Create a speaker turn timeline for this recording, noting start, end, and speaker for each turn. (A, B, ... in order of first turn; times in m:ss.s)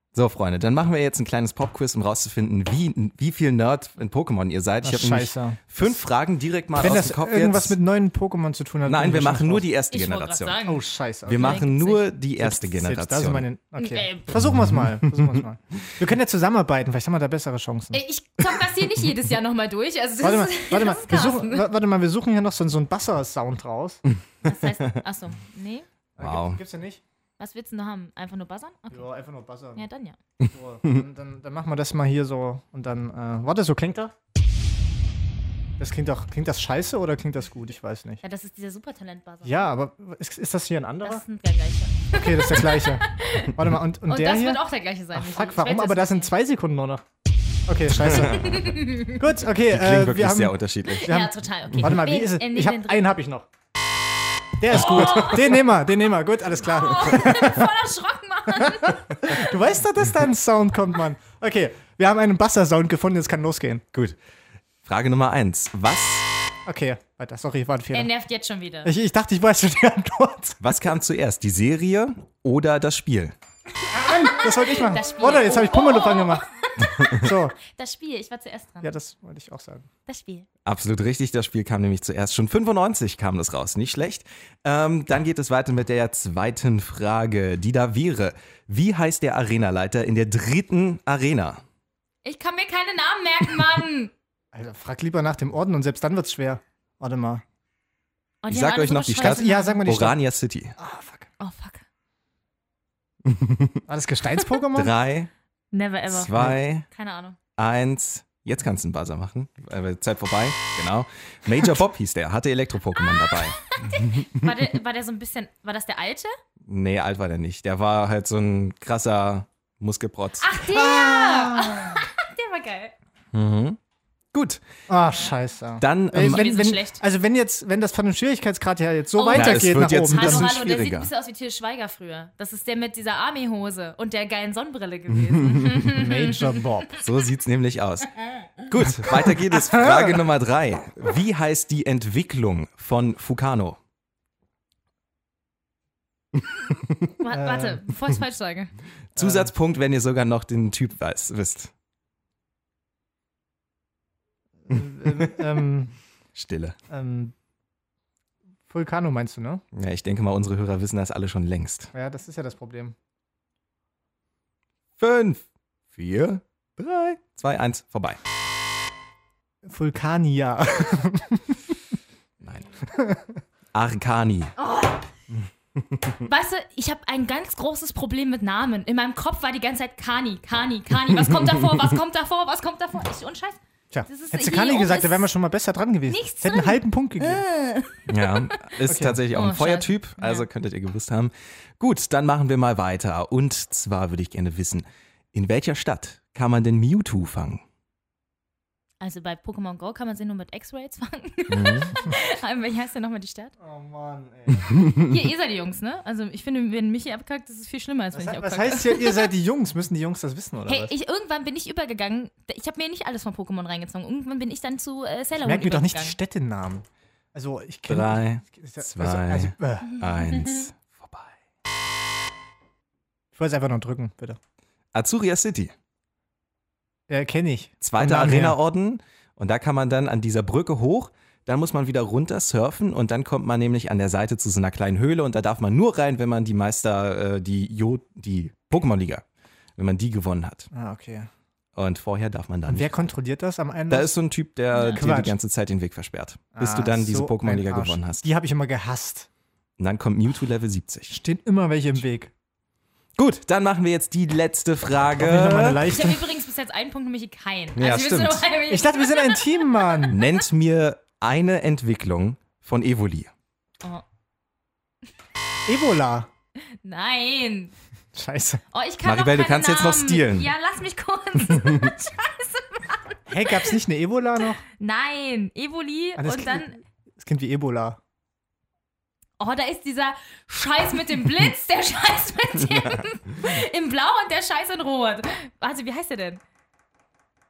0:00.1-0:07.7 A
0:04.8-0:05.9 B
0:06.7-0:09.6 B
0:08.8-0:10.6 A
0:09.9-0:12.0 C
0:10.6-0:11.6 B
0:11.2-0:13.5 A
0:12.4-0:18.0 B
0:13.8-0:14.4 C
0:17.9-0:21.6 C
0:20.2-0:24.0 B
0:24.4-0:25.8 C
0:26.2-0:27.0 B
0:26.2-0:26.6 A
0:27.4-0:29.1 C
0:28.9-0:29.8 B
0:29.8-0:30.2 C
0:30.4-0:30.9 A
0:30.5-0:34.1 B
0:35.8-0:38.2 B
0:38.2-0:39.6 C
0:39.4-0:41.2 B
0:41.0-0:43.5 C
0:42.1-0:44.6 B
0:44.1-0:46.3 C
0:45.1-0:47.0 B
0:47.7-0:53.5 B
0:48.2-0:49.2 C
0:49.7-0:51.2 A
0:50.9-0:53.1 C
0:54.6-0:57.7 B
0:54.7-0:55.4 C
0:54.8-0:55.2 A
0:56.6-0:59.3 C
0:58.6-1:03.8 B
1:04.8-1:06.2 A
1:06.6-1:08.1 B
1:07.9-1:08.9 C
1:08.8-1:10.7 B
1:10.6-1:13.3 A
1:13.9-1:16.4 B
1:14.1-1:18.9 C
1:17.1-1:17.6 B
1:18.8-1:19.9 B
1:20.0-1:20.4 C
1:20.6-1:31.6 A
1:32.2-1:34.1 C
1:34.5-1:37.4 B
1:38.4-1:39.8 C
1:38.5-1:40.8 A
1:39.2-1:40.2 B
1:40.8-1:41.3 B
1:41.4-1:41.8 C
1:43.2-1:43.8 A
1:43.9-1:44.9 B
1:44.7-1:45.3 A
1:45.7-1:46.3 C
1:46.1-1:46.8 A
1:46.8-1:47.4 C
1:47.6-1:54.5 A
1:53.7-1:56.3 C
1:56.7-2:00.5 A
2:00.4-2:02.9 C
2:00.7-2:02.0 B
2:03.3-2:03.8 A
2:04.3-2:04.6 A
2:04.9-2:10.6 B
2:05.8-2:06.5 A
2:06.1-2:07.0 C
2:09.1-2:16.9 C
2:09.3-2:11.1 A
2:15.2-2:15.9 A
2:15.9-2:16.9 B
2:16.9-2:23.8 A
2:18.9-2:20.2 B
2:27.2-2:28.7 C
2:27.3-2:27.8 B
2:29.1-2:31.7 A
2:29.2-2:29.5 B
2:34.6-2:35.9 B
2:36.3-2:36.7 A
2:36.9-2:37.3 B
2:38.7-2:39.6 B
2:39.7-2:41.9 A
2:41.9-2:43.0 B
2:45.0-2:45.4 A
2:45.9-2:48.2 A
2:49.6-2:51.8 B
2:52.4-2:52.7 A
2:52.9-2:53.4 B
2:53.7-2:54.5 A
2:54.6-2:55.0 C
2:55.8-2:56.2 A
2:56.2-3:05.3 C
3:03.9-3:07.4 B
3:06.1-3:08.7 C
3:08.1-3:17.6 A
3:08.8-3:09.2 B
3:09.3-3:10.4 C
3:19.0-3:23.5 C
3:21.5-3:21.9 A
3:23.6-3:24.7 B
3:24.9-3:29.3 C
3:28.1-3:30.9 B
3:30.6-3:36.2 C
3:35.4-3:40.0 B
3:37.9-3:41.3 A
3:43.3-3:44.4 B
3:44.9-3:45.7 A
3:47.1-3:48.6 B
3:47.8-3:59.2 A
3:59.8-4:00.7 A
4:00.7-4:01.3 B
4:01.8-4:03.0 A
4:02.7-4:04.1 B
4:03.9-4:08.2 A
4:04.7-4:05.0 C
4:04.9-4:05.4 B
4:06.6-4:09.3 B
4:09.8-4:11.2 A
4:11.1-4:12.3 B
4:13.2-4:15.8 A
4:15.2-4:16.2 B
4:15.8-4:20.3 C
4:17.8-4:18.4 A
4:18.7-4:20.2 B
4:20.1-4:23.3 A
4:25.6-4:26.3 B
4:26.8-4:27.7 C
4:28.1-4:28.6 B
4:28.7-4:33.7 C
4:29.0-4:30.5 A
4:31.6-4:31.9 A
4:33.3-4:34.6 B
4:34.8-4:36.8 C
4:36.2-4:38.0 B
4:39.4-4:46.4 C